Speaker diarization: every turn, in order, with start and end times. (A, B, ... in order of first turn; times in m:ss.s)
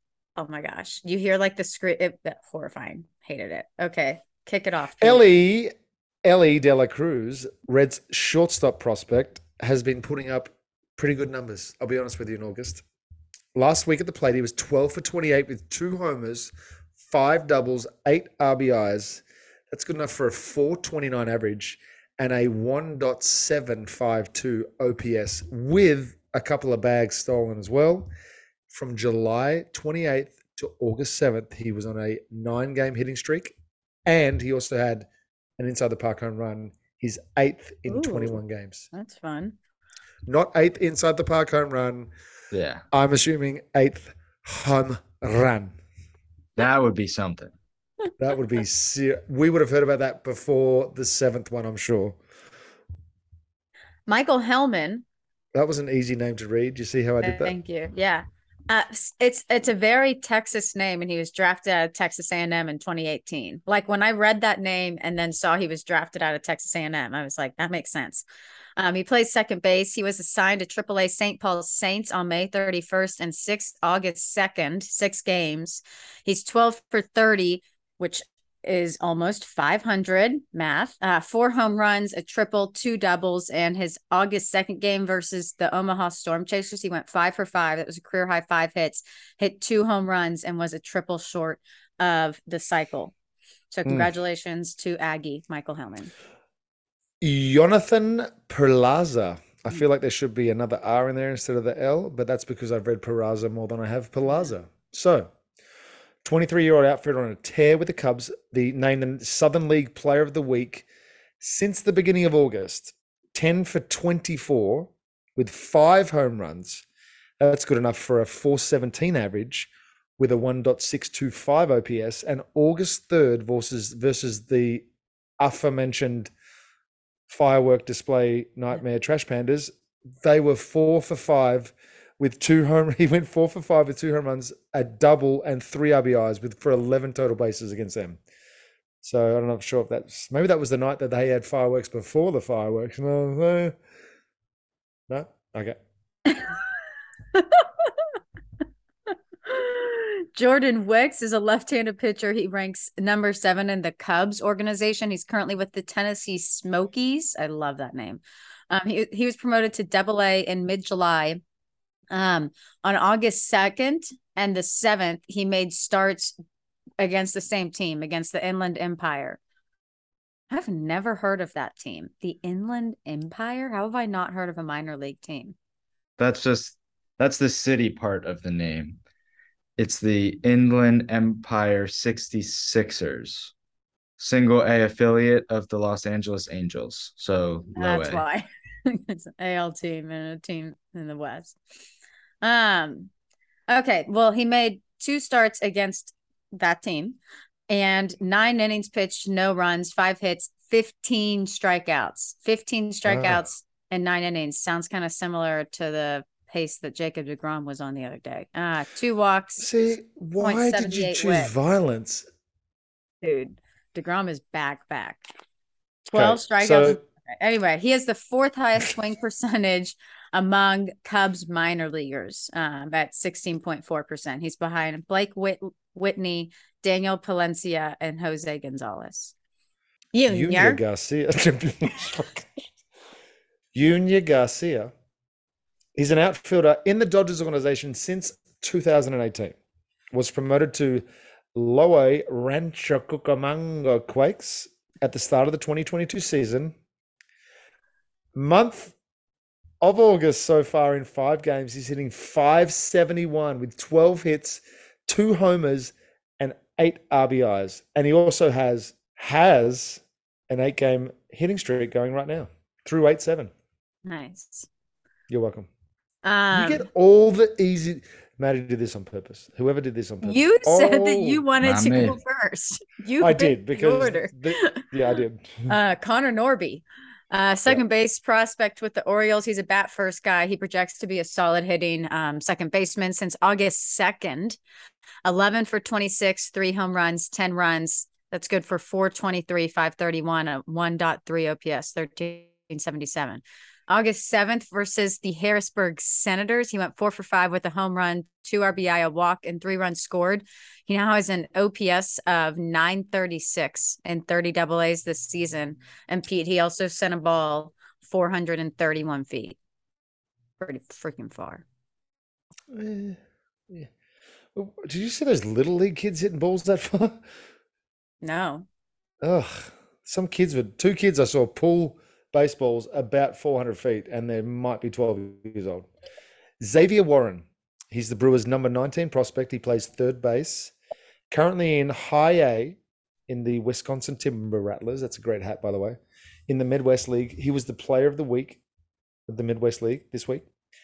0:00.4-0:05.2 A
0:05.0-0:05.7 B
0:06.2-0:12.8 B
0:13.6-0:28.1 B
0:28.7-0:33.6 B
0:34.1-0:35.1 B
0:35.6-0:38.9 B
0:37.9-0:38.4 A
0:38.9-0:39.6 A
0:40.3-0:42.1 B
0:42.5-0:42.8 C
0:42.9-0:45.8 B
0:46.6-0:47.5 C
0:48.2-0:52.2 B
0:54.1-0:55.0 A
0:55.5-0:57.6 B
0:57.2-1:08.2 A
1:08.8-1:33.1 A
1:33.7-1:36.1 A
1:37.2-1:45.3 B
1:46.2-1:50.9 B
1:51.4-1:56.8 B
1:57.4-2:04.9 B
2:05.4-2:06.3 B
2:07.3-2:18.2 B
2:19.0-2:23.8 B
2:25.1-2:25.8 B
2:26.3-2:26.5 A
2:27.3-2:28.1 A
2:29.5-2:41.4 A
2:42.1-2:46.3 A
2:47.0-2:49.4 A
2:50.5-2:55.6 A
2:56.2-2:59.0 C
2:59.8-3:03.5 C
3:04.2-3:08.2 C
3:07.8-3:11.6 A
3:12.4-3:13.1 A
3:13.7-3:17.2 A
3:17.7-3:29.7 A
3:23.0-3:23.4 B
3:29.6-3:32.3 B
3:30.4-3:31.5 A
3:33.2-3:35.2 A
3:36.1-3:49.4 A
3:36.1-3:37.0 B
3:50.1-3:50.8 A
3:50.3-3:52.7 B
3:53.7-3:54.9 B
3:56.0-3:59.6 B
4:00.1-4:06.8 B
4:08.4-4:09.0 B
4:09.8-4:23.5 B
4:24.1-4:24.7 A
4:25.3-4:25.7 B
4:26.2-4:26.9 A
4:26.5-4:31.4 B
4:30.2-4:34.9 A
4:31.6-4:32.2 C
4:33.2-4:35.7 B
4:35.7-4:44.6 A
4:45.2-5:09.6 A
5:10.6-5:11.6 A
5:12.7-5:13.9 B
5:14.6-5:17.2 B
5:18.2-5:18.7 A
5:19.2-5:25.9 B
5:26.6-5:30.7 B
5:31.3-5:38.6 B
5:39.3-5:40.5 B